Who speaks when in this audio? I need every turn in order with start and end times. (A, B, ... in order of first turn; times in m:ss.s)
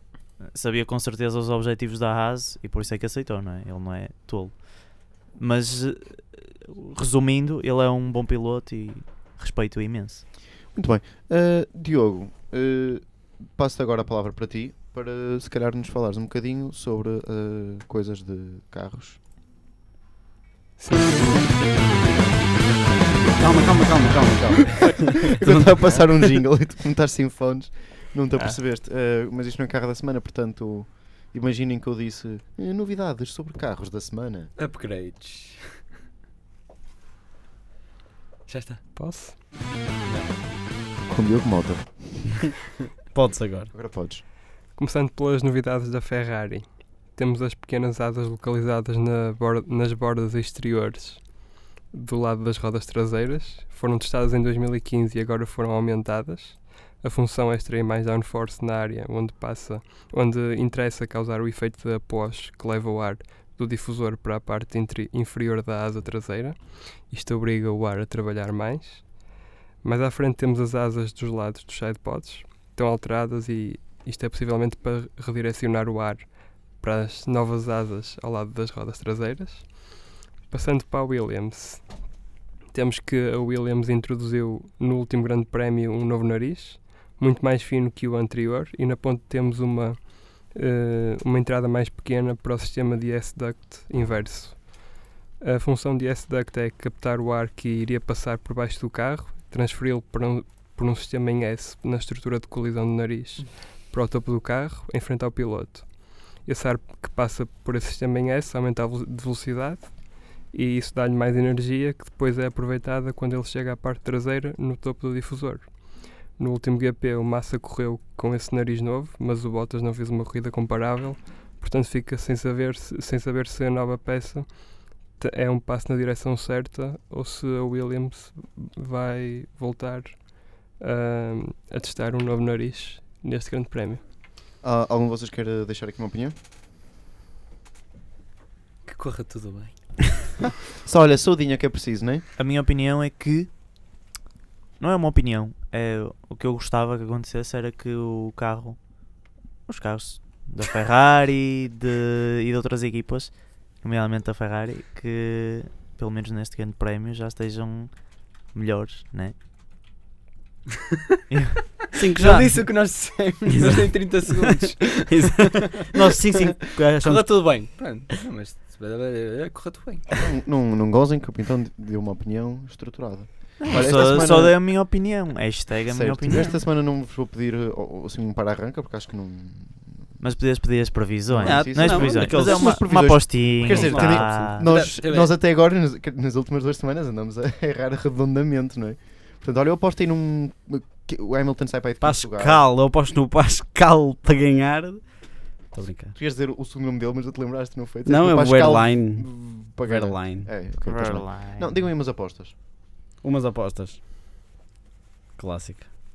0:00.5-0:10.2 A
0:10.7-0:19.2 B
0:20.8-0:23.9 C
0:23.4-0:26.3 D
0:24.3-0:34.5 B
0:24.7-0:25.2 E
0:34.6-0:35.8 E
0:38.5-0:38.8 E
0:39.0-0:39.4 C
0:40.0-0:40.4 E
0:41.1-0:42.5 B
0:43.1-0:43.7 D
0:43.7-0:44.2 B
0:44.7-0:51.4 C
0:51.9-1:09.1 C
1:09.8-1:19.9 C
1:20.5-1:22.0 C
1:22.7-1:34.8 C
1:35.4-2:14.0 C
2:14.6-2:16.3 B
2:18.8-2:20.1 E
2:20.6-2:22.2 B
2:22.4-2:23.5 A
2:24.8-2:28.8 A
2:29.7-2:39.3 A
2:41.3-2:41.6 A
2:41.9-2:42.9 D
2:42.2-2:46.1 E
2:43.5-2:47.7 D
2:46.9-2:50.1 E
2:50.2-2:54.6 B
2:53.6-2:56.6 A
2:55.9-3:00.0 B
3:00.2-3:04.6 A
3:01.3-3:12.6 B
3:01.4-3:04.3 D
3:04.6-3:05.3 E
3:12.0-3:15.0 D
3:15.7-3:16.1 D
3:16.1-3:22.5 B
3:18.0-3:20.5 D
3:20.8-3:21.8 A
3:23.2-3:24.0 D
3:25.4-3:25.9 D